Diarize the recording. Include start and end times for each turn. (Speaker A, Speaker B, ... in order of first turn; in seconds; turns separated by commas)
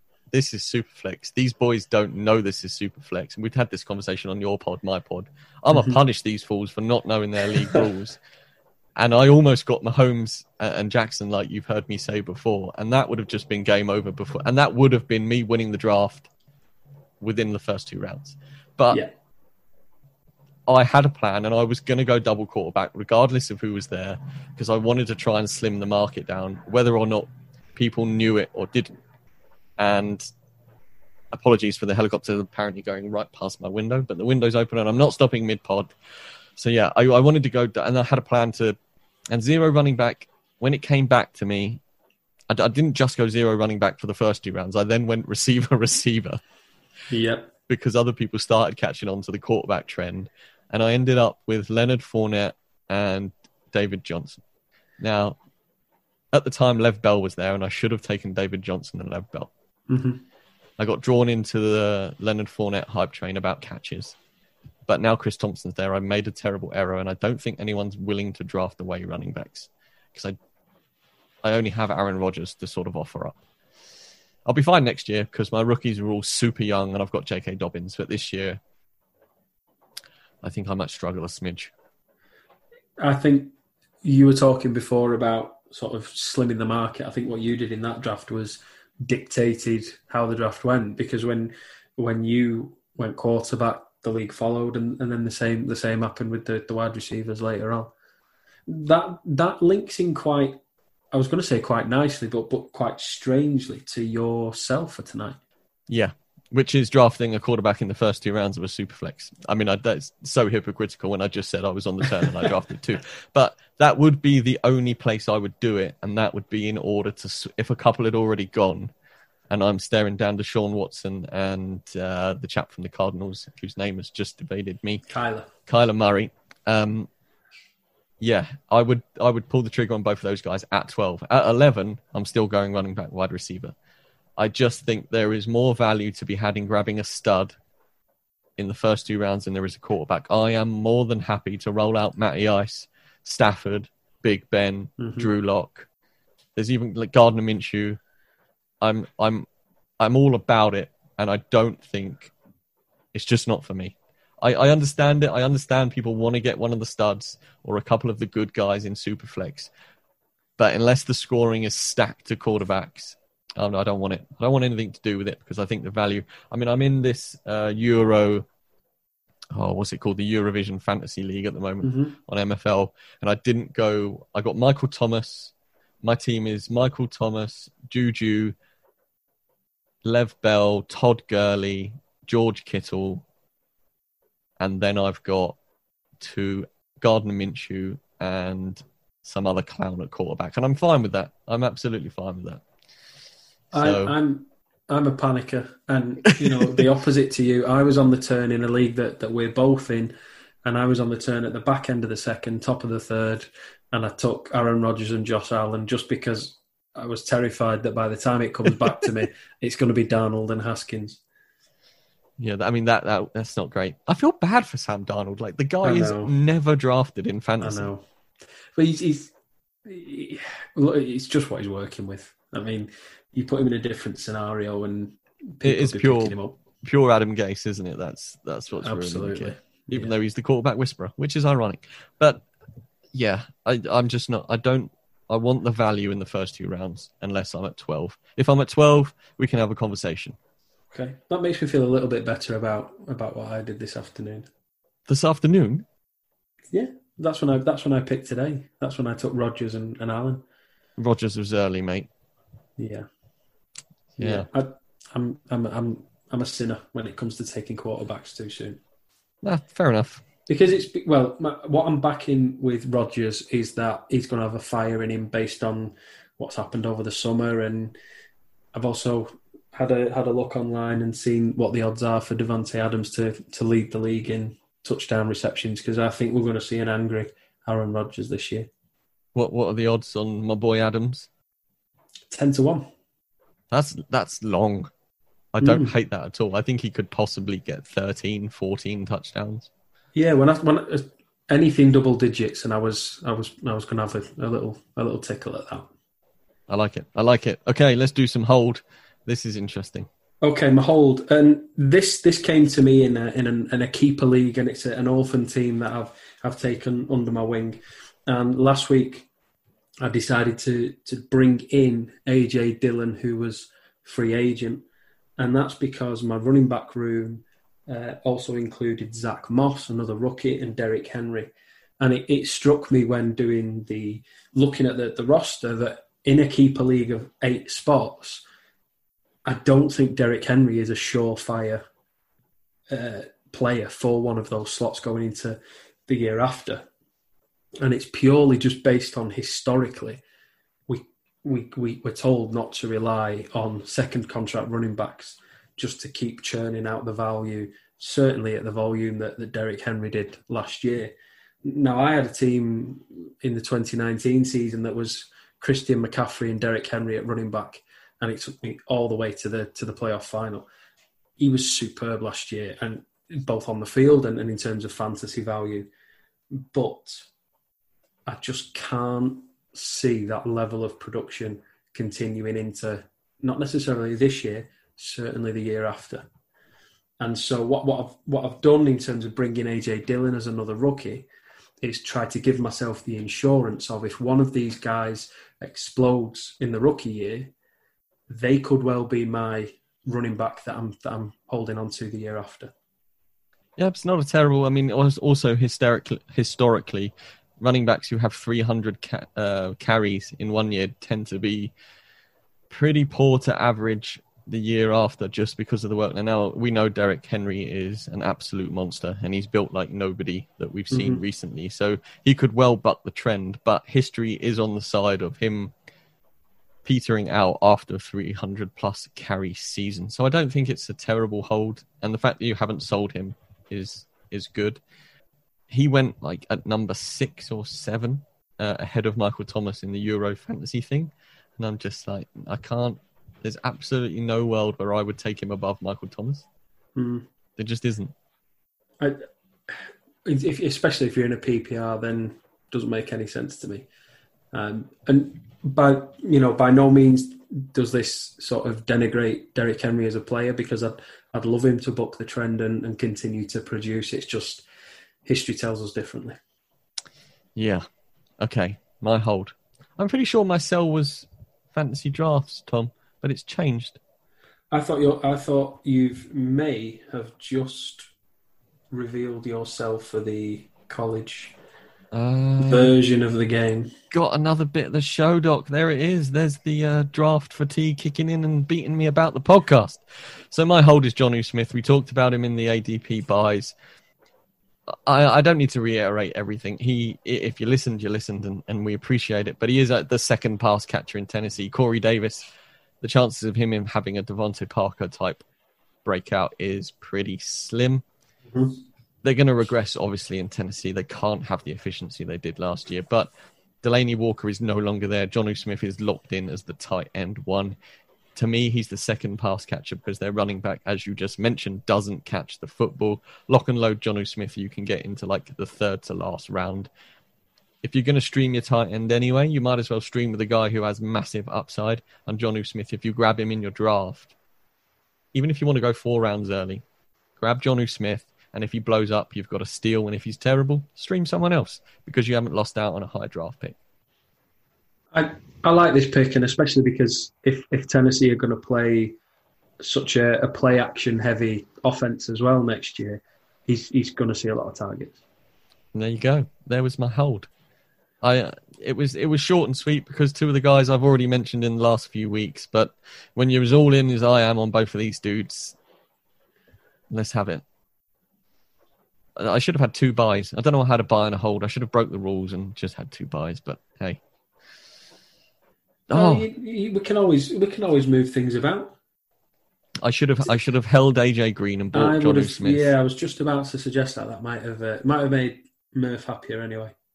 Speaker A: 0.3-8.2, Speaker B: 5.7-6.0, Speaker A: 8.9-16.3, Speaker A: 17.2-19.0, Speaker A: 20.7-28.9, Speaker A: 29.8-30.2, Speaker A: 31.3-35.9, Speaker A: 36.6-38.8, Speaker A: 39.3-41.8, Speaker A: 42.5-46.4, Speaker B: 47.1-47.5, Speaker A: 47.7-54.4, Speaker A: 55.0-55.4, Speaker A: 56.3-59.5, Speaker B: 59.9-60.2, Speaker A: 60.8-64.1, Speaker A: 64.9-70.4, Speaker A: 71.4-73.4, Speaker A: 74.5-78.6, Speaker A: 80.4-81.7, Speaker B: 83.0-97.9, Speaker B: 98.7-100.6, Speaker B: 101.1-105.4, Speaker A: 105.9-118.9, Speaker A: 119.5-125.0, Speaker B: 125.1-125.5, Speaker A: 125.7-127.1, Speaker A: 128.2-133.7, Speaker A: 134.4-137.5, Speaker A: 138.6-145.9, Speaker B: 145.0-145.3, Speaker A: 146.6-148.0, Speaker A: 148.8-149.4, Speaker A: 150.0-152.3, Speaker A: 153.1-159.7, Speaker A: 160.6-168.4, Speaker A: 169.5-178.5, Speaker B: 171.8-172.1, Speaker A: 180.0-183.2, Speaker A: 184.6-185.6, Speaker A: 186.2-192.6, Speaker B: 193.7-200.1, Speaker A: 193.7-194.1, Speaker A: 196.4-196.8, Speaker B: 200.6-211.2, Speaker A: 212.4-217.9, Speaker B: 215.8-216.3, Speaker B: 217.6-218.0, Speaker B: 218.8-219.3, Speaker B: 219.8-226.6, Speaker A: 225.6-232.4, Speaker B: 228.8-230.1, Speaker A: 233.1-240.3, Speaker B: 240.9-244.5, Speaker A: 245.1-245.8, Speaker B: 246.7-250.4, Speaker A: 251.0-252.1, Speaker B: 252.8-253.1, Speaker B: 254.2-258.8, Speaker A: 254.2-254.5, Speaker A: 259.4-260.2, Speaker B: 260.5-267.9, Speaker B: 268.7-278.7, Speaker A: 279.3-281.3, Speaker B: 282.3-282.9, Speaker A: 283.7-284.9, Speaker A: 285.5-289.7, Speaker B: 285.6-285.9, Speaker B: 290.1-295.9, Speaker A: 296.7-300.1, Speaker B: 300.4-309.3, Speaker B: 310.0-314.8, Speaker B: 315.4-328.4, Speaker B: 329.4-331.8, Speaker B: 332.9-336.9, Speaker B: 337.8-340.2, Speaker B: 340.9-351.1, Speaker B: 351.6-360.7, Speaker B: 361.4-365.9, Speaker B: 366.5-367.2, Speaker B: 368.3-376.2, Speaker B: 377.2-381.3, Speaker B: 381.8-387.5, Speaker B: 388.3-392.7, Speaker A: 393.8-401.7, Speaker A: 402.7-415.7, Speaker B: 410.9-411.2, Speaker A: 416.8-424.8, Speaker A: 425.7-436.4, Speaker B: 436.9-437.2, Speaker A: 437.6-438.1, Speaker B: 439.0-443.9, Speaker B: 444.5-454.6, Speaker B: 455.2-456.4, Speaker A: 457.6-457.8, Speaker A: 458.4-464.0, Speaker B: 464.7-468.1, Speaker B: 468.9-471.5, Speaker A: 472.1-472.9, Speaker B: 472.6-473.9, Speaker A: 474.1-483.7, Speaker A: 485.1-492.5, Speaker A: 493.0-495.4, Speaker A: 496.0-498.0, Speaker B: 498.5-498.8, Speaker A: 499.2-503.3, Speaker A: 503.8-507.8, Speaker A: 508.4-516.9, Speaker A: 517.8-524.3, Speaker A: 525.3-526.8, Speaker A: 527.4-533.8, Speaker B: 535.1-539.1, Speaker B: 539.8-545.2, Speaker A: 545.9-547.5, Speaker A: 548.2-555.8, Speaker A: 557.1-557.6, Speaker A: 559.4-564.2, Speaker A: 566.1-566.4, Speaker B: 566.1-568.9, Speaker A: 570.0-572.9, Speaker B: 571.9-576.9